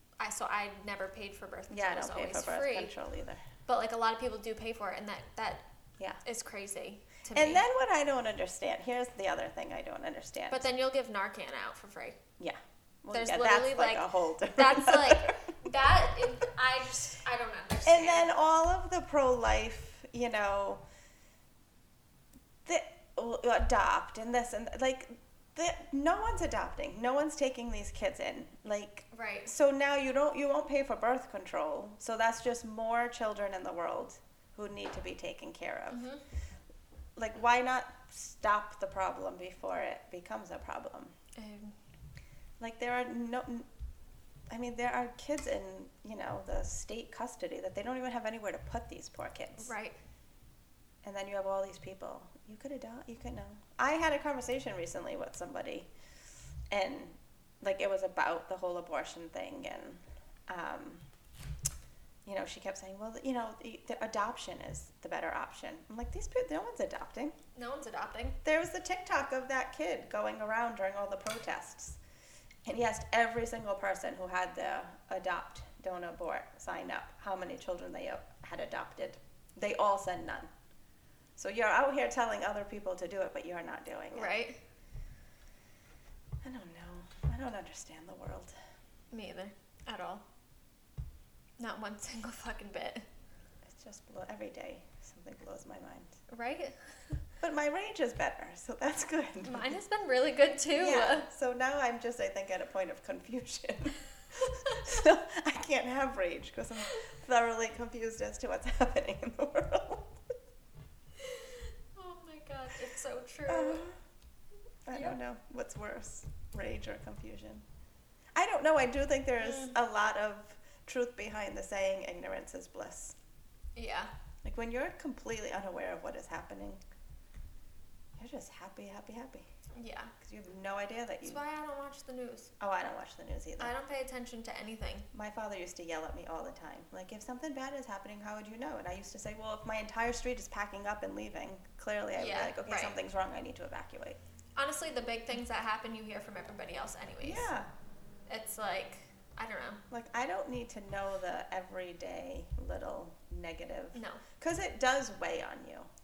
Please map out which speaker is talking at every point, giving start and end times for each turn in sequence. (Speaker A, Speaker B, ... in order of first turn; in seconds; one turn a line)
Speaker A: 0.2-2.9
Speaker B: 1.7-3.4
Speaker A: 3.6-5.6
Speaker A: 6.2-7.6
Speaker B: 7.3-10.7
Speaker A: 10.5-12.2
Speaker B: 12.4-15.5
Speaker A: 13.1-18.3
Speaker B: 17.9-20.8
Speaker B: 22.6-36.0
Speaker A: 29.1-29.5
Speaker A: 35.9-36.2
Speaker B: 37.2-41.1
Speaker A: 41.4-41.8
Speaker B: 42.6-43.7
Speaker B: 44.5-49.7
Speaker A: 49.6-50.0
Speaker B: 51.0-55.9
Speaker B: 56.7-61.0
Speaker B: 62.2-67.3
Speaker A: 67.5-68.4
Speaker B: 68.4-72.0
Speaker B: 72.7-80.5
Speaker B: 81.4-84.4
Speaker A: 84.1-84.6
Speaker B: 86.4-88.5
Speaker A: 89.1-90.2
Speaker A: 91.6-93.0
Speaker B: 93.7-96.2
Speaker A: 96.3-97.0
Speaker B: 97.4-99.7
Speaker A: 99.4-101.3
Speaker B: 100.7-110.2
Speaker A: 111.2-113.9
Speaker B: 113.5-114.0
Speaker B: 114.9-117.7
Speaker B: 118.3-123.2
Speaker A: 119.4-119.8
Speaker A: 123.8-124.1
Speaker B: 124.4-126.8
Speaker B: 128.2-129.5
Speaker A: 129.8-130.1
Speaker B: 130.2-131.4
Speaker A: 131.2-132.5
Speaker B: 132.6-133.7
Speaker A: 133.6-135.1
Speaker B: 135.1-144.2
Speaker A: 142.2-143.0
Speaker A: 144.6-147.5
Speaker B: 147.2-147.7
Speaker A: 148.3-149.8
Speaker B: 149.9-155.9
Speaker A: 153.9-154.2